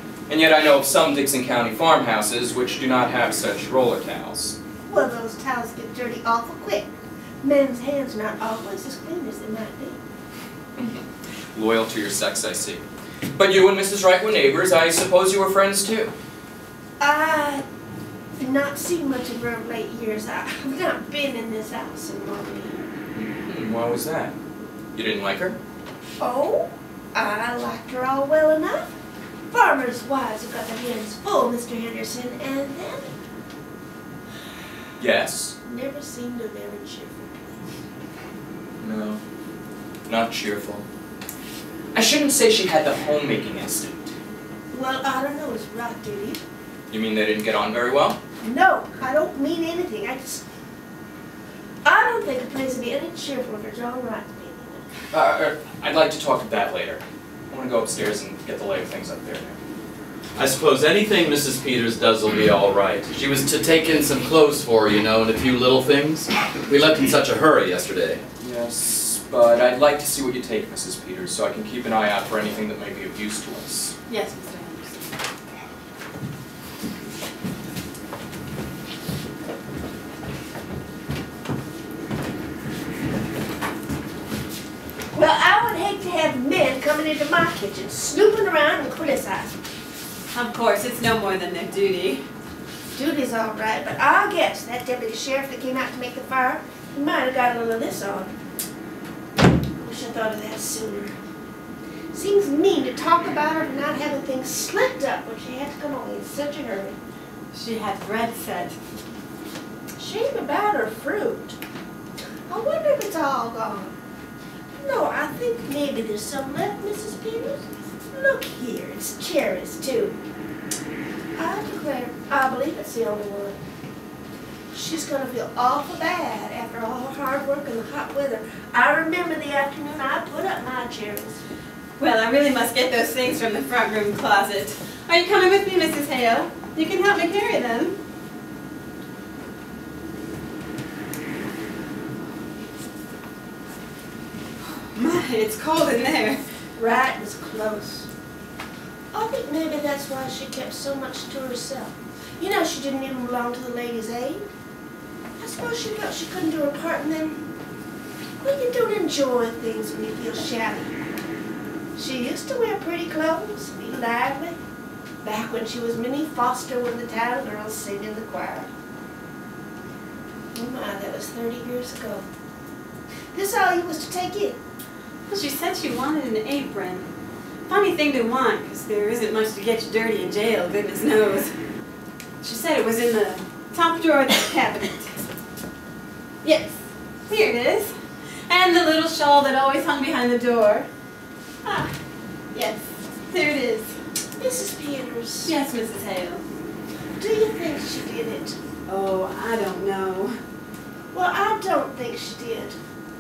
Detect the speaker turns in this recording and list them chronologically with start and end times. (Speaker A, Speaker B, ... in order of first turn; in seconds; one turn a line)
Speaker A: 0.3-4.6
Speaker B: 4.9-10.0
Speaker A: 10.8-12.8
Speaker A: 13.4-16.1
Speaker B: 17.0-17.6
Speaker B: 18.4-22.9
Speaker A: 23.1-24.3
Speaker A: 24.9-25.6
Speaker B: 26.2-29.0
Speaker B: 29.5-33.1
Speaker A: 35.0-35.5
Speaker B: 35.6-37.8
Speaker A: 38.8-39.2
Speaker A: 40.1-40.8
Speaker A: 41.9-44.1
Speaker B: 44.7-46.4
Speaker A: 46.9-48.2
Speaker B: 48.4-50.4
Speaker B: 51.8-54.9
Speaker A: 55.1-59.6
Speaker C: 60.4-68.2
Speaker A: 68.4-73.9
Speaker D: 74.1-75.1
Speaker B: 85.1-89.6
Speaker D: 90.3-92.2
Speaker B: 92.9-98.3
Speaker B: 99.8-101.2
Speaker B: 102.1-107.0
Speaker D: 107.5-108.8
Speaker B: 110.0-111.6
Speaker B: 112.5-113.9
Speaker B: 114.8-120.2
Speaker B: 121.4-123.6
Speaker B: 124.7-131.4
Speaker D: 132.0-138.0
Speaker D: 144.9-146.4
Speaker B: 146.8-148.1
Speaker B: 149.1-154.5
Speaker B: 155.4-157.4
Speaker B: 158.4-160.9
Speaker B: 161.9-164.6
Speaker B: 165.2-168.7
Speaker B: 170.5-172.3
Speaker B: 173.3-174.6
Speaker D: 175.3-177.1
Speaker D: 177.7-181.5
Speaker D: 182.4-185.2
Speaker D: 186.4-188.0
Speaker D: 188.5-190.9
Speaker D: 191.7-191.9
Speaker D: 192.5-194.0
Speaker B: 194.4-195.5
Speaker D: 195.4-196.4
Speaker B: 197.2-198.6
Speaker D: 198.9-200.4
Speaker B: 201.1-202.8